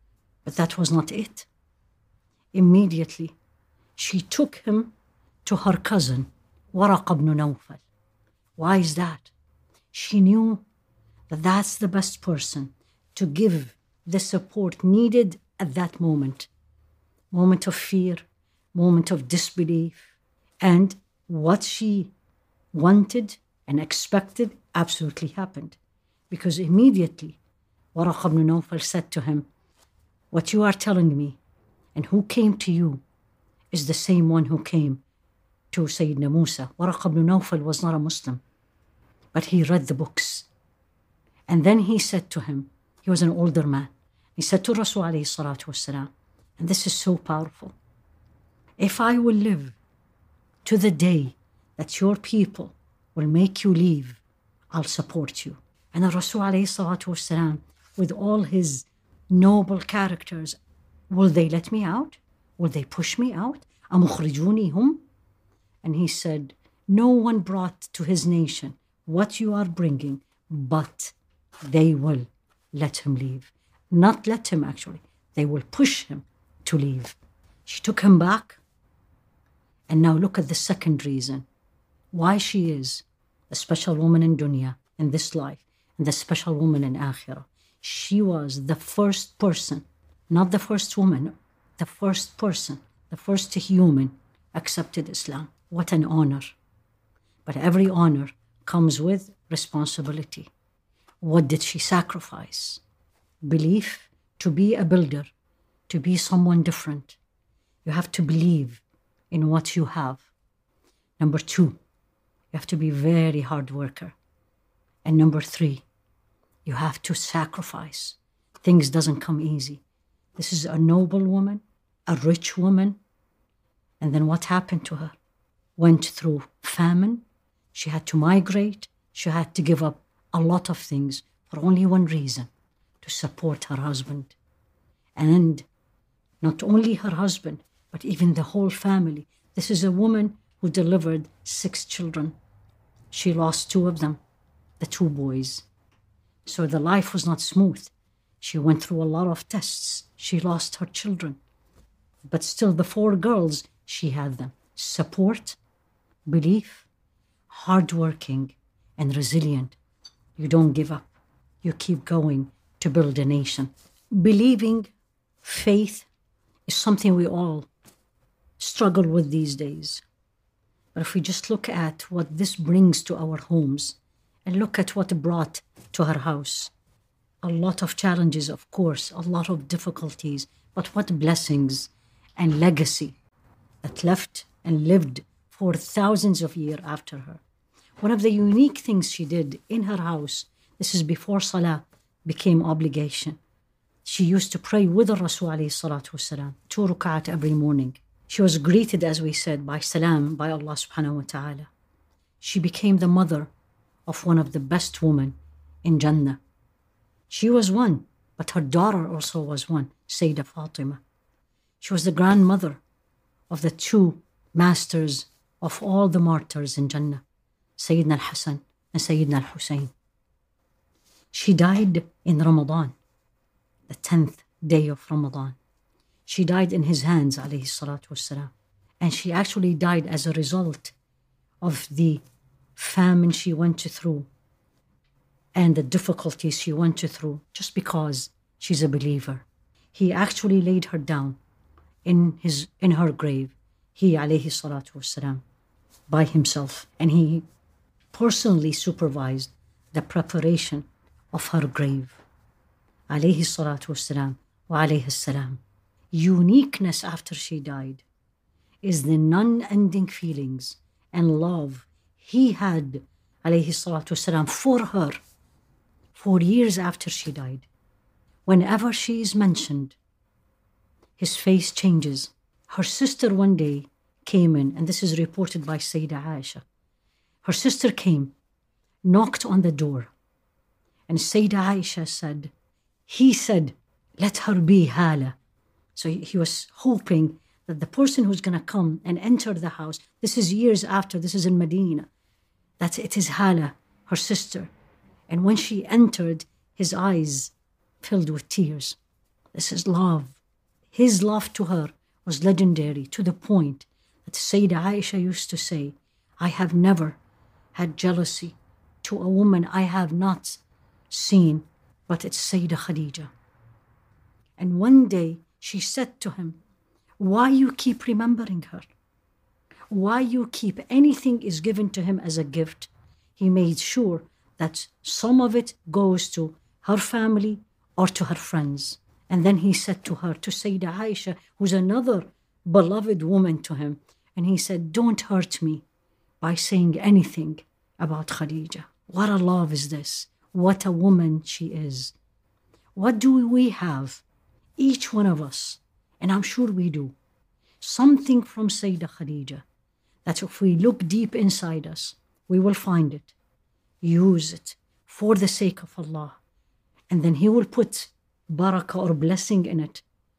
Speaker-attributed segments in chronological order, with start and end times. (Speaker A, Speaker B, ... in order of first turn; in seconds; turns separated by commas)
Speaker A: 0.5-1.5, Speaker A: 2.5-3.4, Speaker A: 4.0-4.9, Speaker A: 5.5-7.8, Speaker A: 8.6-9.3, Speaker A: 9.9-10.6, Speaker A: 11.3-16.5, Speaker A: 17.3-22.1, Speaker A: 22.7-25.8, Speaker A: 26.3-27.4, Speaker A: 27.9-29.5, Speaker A: 30.3-31.4, Speaker A: 31.9-33.0, Speaker A: 33.7-35.0, Speaker A: 35.7-38.4, Speaker A: 39.3-40.5, Speaker A: 41.5-47.8, Speaker A: 48.8-49.8, Speaker A: 50.6-60.6, Speaker A: 61.1-65.0, Speaker A: 65.8-78.6, Speaker A: 79.9-81.5, Speaker A: 82.1-96.6, Speaker A: 97.5-100.5, Speaker A: 101.2-102.8, Speaker A: 103.4-105.3, Speaker A: 105.9-107.2, Speaker A: 107.8-110.3, Speaker A: 111.2-111.8, Speaker A: 112.5-114.2, Speaker A: 115.0-115.8, Speaker A: 116.7-119.8, Speaker A: 120.4-123.0, Speaker A: 124.0-125.2, Speaker A: 125.8-132.5, Speaker A: 133.0-134.4, Speaker A: 135.2-135.7, Speaker A: 136.4-142.4, Speaker A: 143.1-144.2, Speaker A: 144.8-145.7, Speaker A: 146.5-151.4, Speaker A: 152.3-155.6, Speaker A: 156.3-156.9, Speaker A: 157.5-159.8, Speaker A: 160.4-164.9, Speaker A: 165.4-166.1, Speaker A: 166.7-167.7, Speaker A: 168.6-170.0, Speaker A: 170.9-176.7, Speaker A: 177.4-183.2, Speaker A: 183.8-187.4, Speaker A: 188.0-193.4, Speaker A: 194.0-201.7, Speaker A: 202.4-203.5, Speaker A: 204.1-206.4, Speaker A: 207.3-211.0, Speaker A: 211.8-212.8, Speaker A: 213.5-217.2, Speaker A: 217.8-219.9, Speaker A: 221.3-223.0, Speaker A: 223.9-225.6, Speaker A: 226.3-230.9, Speaker A: 231.6-232.2, Speaker A: 232.8-234.3, Speaker A: 235.5-241.4, Speaker A: 242.0-245.4, Speaker A: 246.1-247.4, Speaker A: 248.1-252.2, Speaker A: 253.1-255.6, Speaker A: 256.1-258.1, Speaker A: 258.8-265.2, Speaker A: 266.1-267.7, Speaker A: 268.5-270.0, Speaker A: 271.2-276.6, Speaker A: 277.4-278.3, Speaker A: 279.0-280.1, Speaker A: 281.1-282.5, Speaker A: 283.1-285.4, Speaker A: 285.9-292.1, Speaker A: 292.8-294.7, Speaker A: 295.3-299.0, Speaker A: 299.5-300.4, Speaker A: 300.9-307.2, Speaker A: 307.7-313.3, Speaker A: 314.6-316.6, Speaker A: 317.2-318.9, Speaker A: 319.9-335.8, Speaker A: 336.4-342.1, Speaker A: 342.9-344.2, Speaker A: 344.8-347.1, Speaker A: 347.8-349.6, Speaker A: 350.2-353.3, Speaker A: 354.0-356.4, Speaker A: 357.1-360.0